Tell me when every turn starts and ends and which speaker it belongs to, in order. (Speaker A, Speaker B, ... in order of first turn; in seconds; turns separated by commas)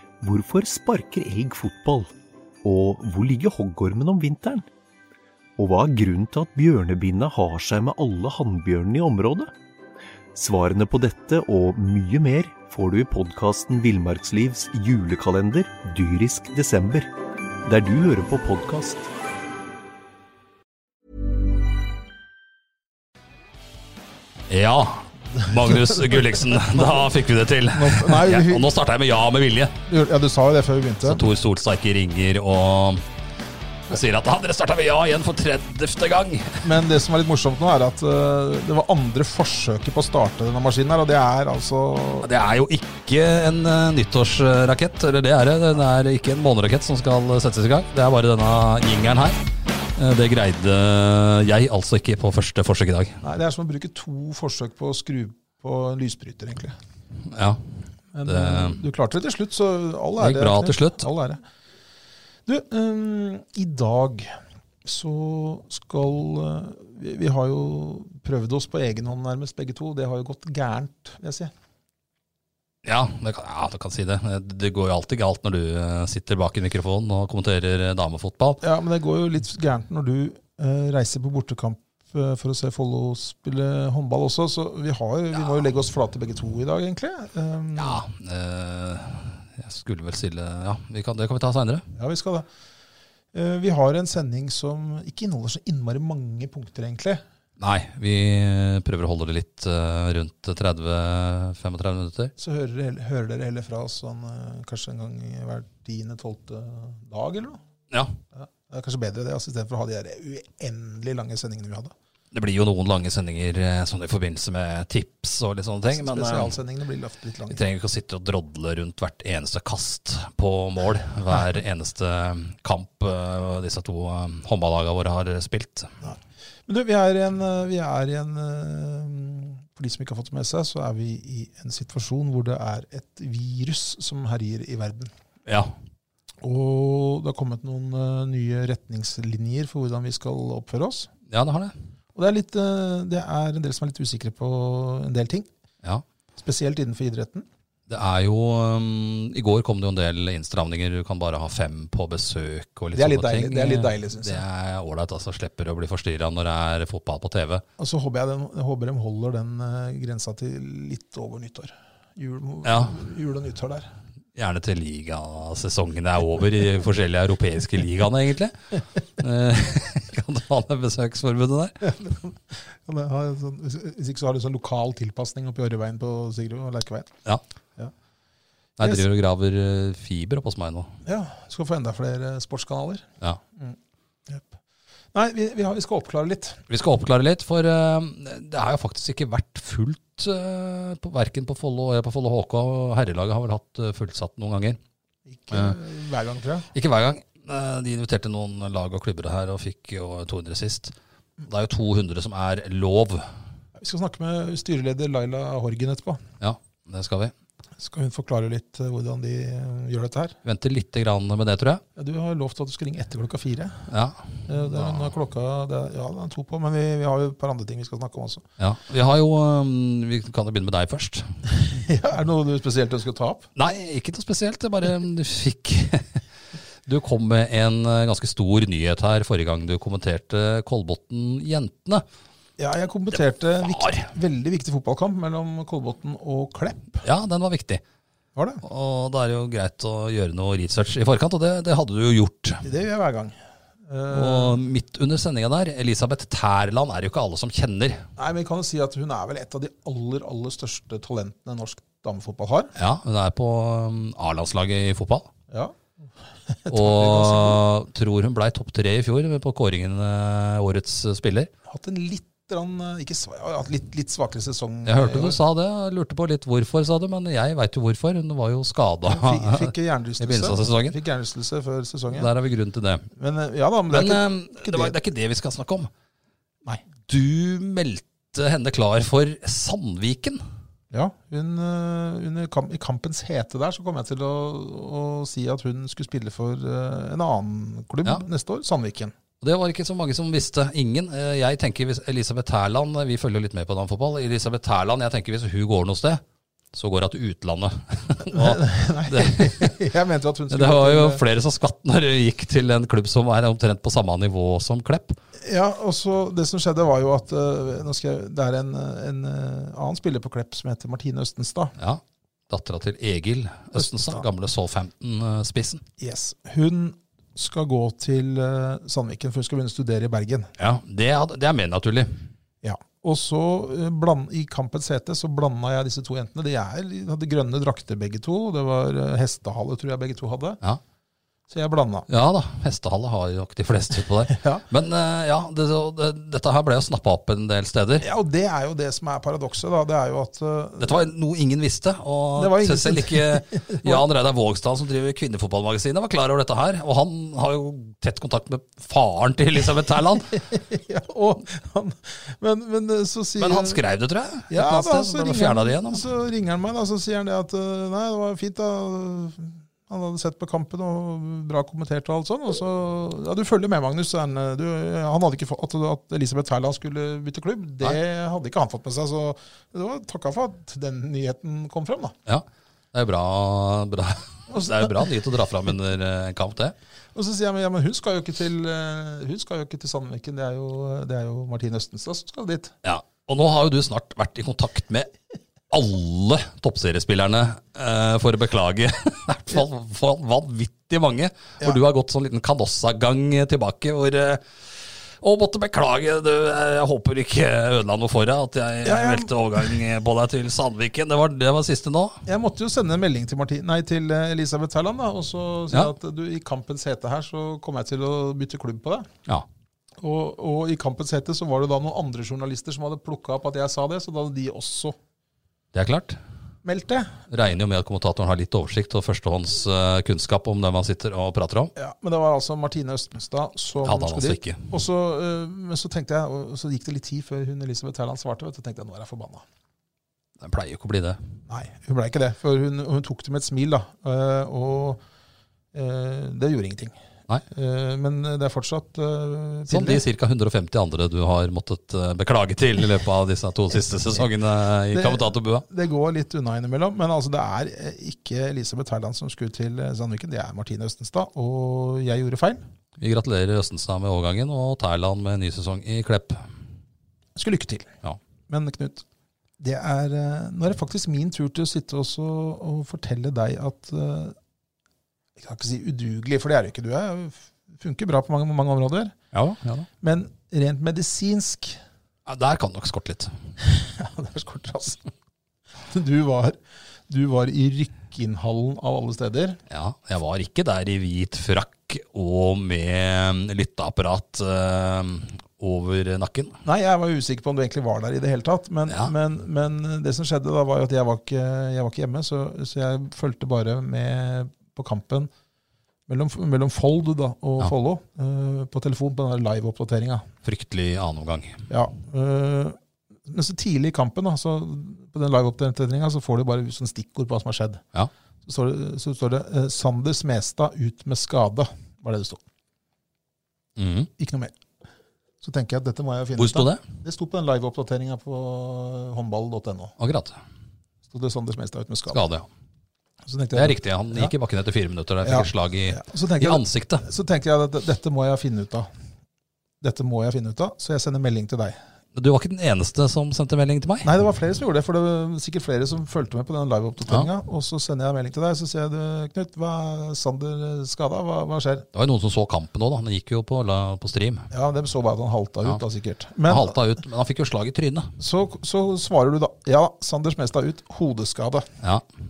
Speaker A: 0.2-2.1, Speaker A: 2.6-4.7, Speaker A: 5.6-9.5, Speaker A: 10.3-17.1, Speaker A: 17.6-19.1, Speaker B: 24.5-29.7, Speaker C: 25.4-27.1, Speaker C: 27.7-28.7, Speaker C: 29.9-31.2, Speaker B: 31.0-33.0, Speaker B: 33.9-36.7, Speaker C: 36.6-42.3, Speaker B: 42.2-49.4, Speaker B: 50.0-53.2, Speaker C: 53.2-56.8, Speaker B: 57.3-57.6, Speaker C: 58.1-61.4, Speaker B: 58.2-58.8, Speaker B: 60.2-61.1, Speaker C: 62.5-64.3, Speaker C: 64.8-71.5, Speaker B: 72.8-78.6, Speaker C: 78.6-88.0, Speaker B: 87.8-91.8, Speaker C: 91.9-92.5, Speaker C: 93.3-97.2, Speaker B: 97.6-102.3, Speaker C: 102.4-107.6, Speaker C: 108.3-111.9, Speaker B: 112.3-116.5, Speaker C: 115.9-117.6, Speaker B: 117.5-125.9, Speaker C: 126.0-135.1, Speaker B: 135.4-135.7, Speaker C: 136.4-141.1, Speaker B: 141.3-141.7, Speaker C: 142.1-145.5, Speaker C: 146.3-147.5, Speaker B: 147.9-157.6, Speaker C: 152.9-154.4, Speaker C: 157.8-163.9, Speaker B: 162.6-163.0, Speaker B: 164.3-171.8, Speaker C: 171.8-177.1, Speaker B: 178.8-180.9, Speaker C: 181.0-184.6, Speaker C: 185.1-186.6, Speaker B: 186.7-194.8, Speaker C: 195.3-196.7, Speaker B: 196.7-200.9, Speaker B: 201.4-203.3, Speaker C: 203.8-206.2, Speaker B: 206.4-207.3, Speaker C: 207.8-210.3, Speaker B: 210.4-211.8, Speaker C: 211.9-213.9, Speaker B: 213.9-215.1, Speaker C: 214.5-218.4, Speaker B: 218.6-221.3, Speaker C: 221.6-223.5, Speaker B: 223.6-226.2, Speaker B: 226.8-232.0, Speaker C: 232.6-237.0, Speaker B: 233.6-234.1, Speaker B: 237.0-237.8, Speaker C: 238.3-238.6, Speaker B: 238.6-242.6, Speaker C: 242.6-244.6, Speaker B: 244.1-248.1, Speaker C: 248.2-252.7, Speaker B: 252.8-255.3, Speaker C: 255.5-255.8, Speaker C: 256.5-257.6, Speaker B: 256.7-261.5, Speaker C: 261.7-265.4, Speaker B: 264.8-271.0, Speaker C: 269.0-272.3, Speaker B: 272.1-273.1, Speaker C: 273.2-274.9, Speaker B: 273.9-275.9, Speaker B: 277.1-280.4, Speaker C: 280.9-289.1, Speaker B: 289.4-296.2, Speaker B: 296.7-299.7, Speaker C: 298.3-301.2, Speaker B: 300.5-305.2, Speaker C: 305.4-311.7, Speaker B: 311.8-315.8, Speaker C: 313.8-314.2, Speaker C: 316.0-320.5, Speaker B: 320.6-322.2, Speaker C: 322.6-330.6, Speaker C: 331.5-332.1, Speaker B: 332.1-338.1, Speaker C: 334.3-334.6, Speaker C: 338.0-341.1, Speaker B: 340.8-350.4, Speaker C: 342.3-344.0, Speaker C: 350.3-353.8, Speaker B: 353.4-356.1, Speaker C: 354.5-372.1, Speaker B: 372.3-376.7, Speaker C: 374.5-374.9, Speaker C: 377.1-382.7, Speaker B: 382.8-385.1, Speaker B: 385.7-394.6, Speaker B: 395.2-402.2, Speaker C: 398.8-399.7, Speaker C: 402.2-409.1, Speaker C: 410.0-414.9, Speaker B: 415.7-416.2, Speaker C: 416.6-417.1, Speaker B: 417.3-421.7, Speaker C: 421.8-429.4, Speaker B: 423.8-424.7, Speaker B: 430.4-431.2, Speaker C: 431.5-435.0, Speaker C: 435.7-436.9, Speaker C: 437.5-440.0, Speaker B: 439.7-445.6, Speaker C: 444.9-452.6, Speaker B: 453.0-456.4, Speaker C: 457.3-457.9, Speaker C: 458.5-459.0, Speaker C: 459.6-464.4, Speaker C: 465.4-469.1, Speaker B: 469.3-469.9, Speaker C: 470.0-471.8, Speaker B: 472.2-473.3, Speaker C: 473.6-475.1, Speaker C: 475.9-479.6, Speaker B: 479.7-486.6, Speaker C: 486.6-495.3, Speaker C: 496.1-500.3, Speaker B: 500.4-501.6, Speaker C: 501.7-507.8, Speaker C: 508.4-512.4, Speaker B: 513.8-514.1, Speaker C: 514.2-514.5, Speaker C: 515.4-519.9, Speaker B: 516.4-516.9, Speaker B: 520.0-520.4, Speaker C: 521.1-522.2, Speaker B: 522.1-522.5, Speaker C: 523.2-524.3, Speaker B: 523.5-527.0, Speaker C: 525.2-528.9, Speaker C: 529.8-531.8, Speaker B: 532.1-534.1, Speaker C: 534.0-541.9, Speaker B: 541.9-544.5, Speaker C: 544.5-546.8, Speaker B: 546.5-548.1, Speaker C: 548.2-551.7